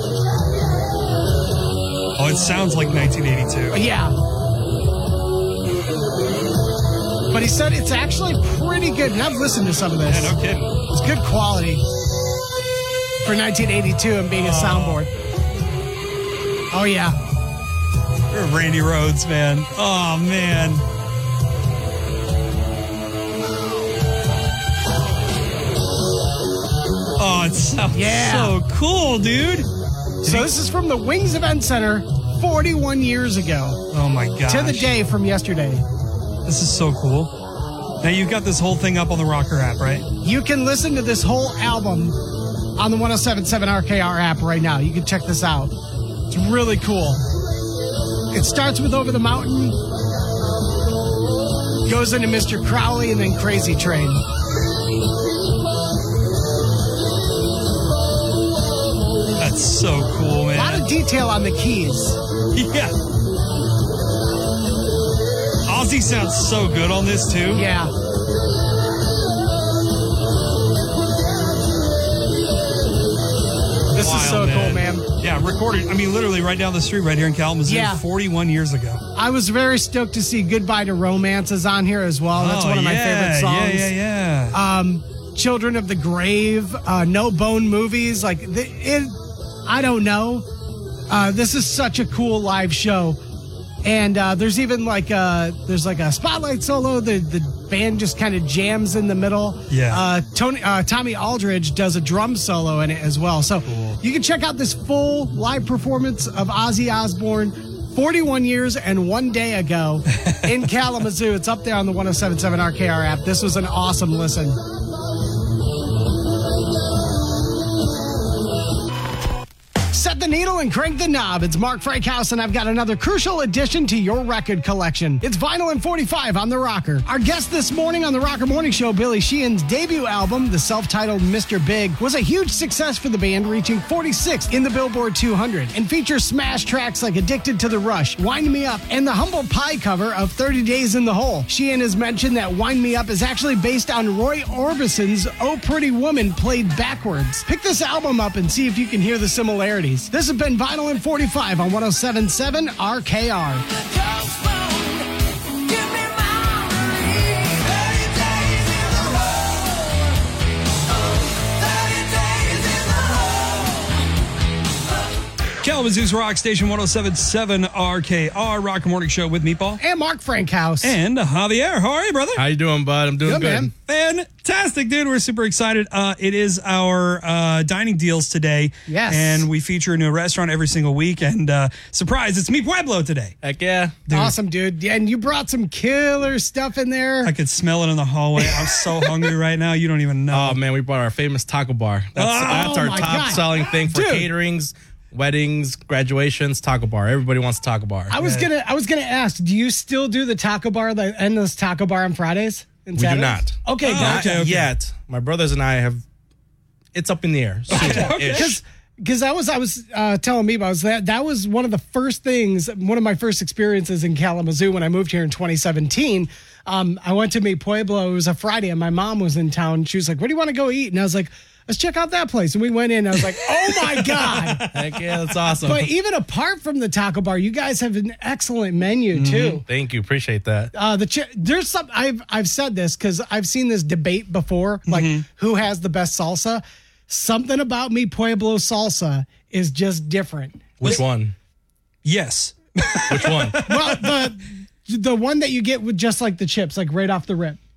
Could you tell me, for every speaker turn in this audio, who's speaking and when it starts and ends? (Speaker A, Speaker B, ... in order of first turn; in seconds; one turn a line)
Speaker A: 2.2-3.8
Speaker B: 3.7-4.2
Speaker B: 7.3-10.4
Speaker A: 10.1-10.8
Speaker B: 10.9-11.8
Speaker B: 13.2-15.1
Speaker A: 14.3-15.0
Speaker B: 16.7-17.2
Speaker A: 18.3-20.8
Speaker A: 27.2-29.7
Speaker B: 27.9-28.6
Speaker A: 30.2-30.5
Speaker B: 30.2-33.8
Speaker A: 33.9-35.0
Speaker B: 34.5-35.8
Speaker A: 36.5-37.4
Speaker A: 38.0-40.1
Speaker B: 40.2-42.2
Speaker B: 42.8-45.8
Speaker B: 46.3-47.2
Speaker B: 48.3-49.8
Speaker B: 51.9-54.2
Speaker A: 59.4-60.9
Speaker B: 60.5-62.2
Speaker A: 62.5-62.9
Speaker A: 65.7-67.7
Speaker B: 67.5-67.9
Speaker B: 73.9-75.0
Speaker A: 74.0-79.0
Speaker B: 77.7-78.0
Speaker B: 79.2-83.9
Speaker A: 82.3-84.6
Speaker B: 84.5-90.5
Speaker B: 91.1-93.2
Speaker B: 93.8-114.6
Speaker A: 99.7-100.0
Speaker A: 103.7-104.0
Speaker B: 119.9-153.7
Speaker A: 165.6-169.8
Speaker B: 169.8-171.0
Speaker A: 170.8-172.4
Speaker C: 172.4-173.7
Speaker B: 173.2-173.7
Speaker A: 173.8-183.4
Speaker B: 178.9-179.5
Speaker C: 183.4-184.0
Speaker A: 184.1-184.3
Speaker B: 184.1-187.3
Speaker A: 187.2-190.6
Speaker C: 190.3-198.2
Speaker A: 192.2-193.0
Speaker B: 192.5-194.3
Speaker B: 198.1-204.5
Speaker A: 198.2-198.5
Speaker C: 203.0-206.0
Speaker A: 203.8-204.7
Speaker C: 206.9-208.6
Speaker A: 207.7-208.6
Speaker B: 207.7-224.8
Speaker C: 224.7-225.9
Speaker B: 225.6-229.6
Speaker A: 229.1-229.6
Speaker C: 229.7-230.7
Speaker B: 230.7-241.0
Speaker A: 234.9-235.2
Speaker C: 240.8-241.3
Speaker A: 242.1-244.1
Speaker C: 243.1-243.7
Speaker B: 243.7-247.6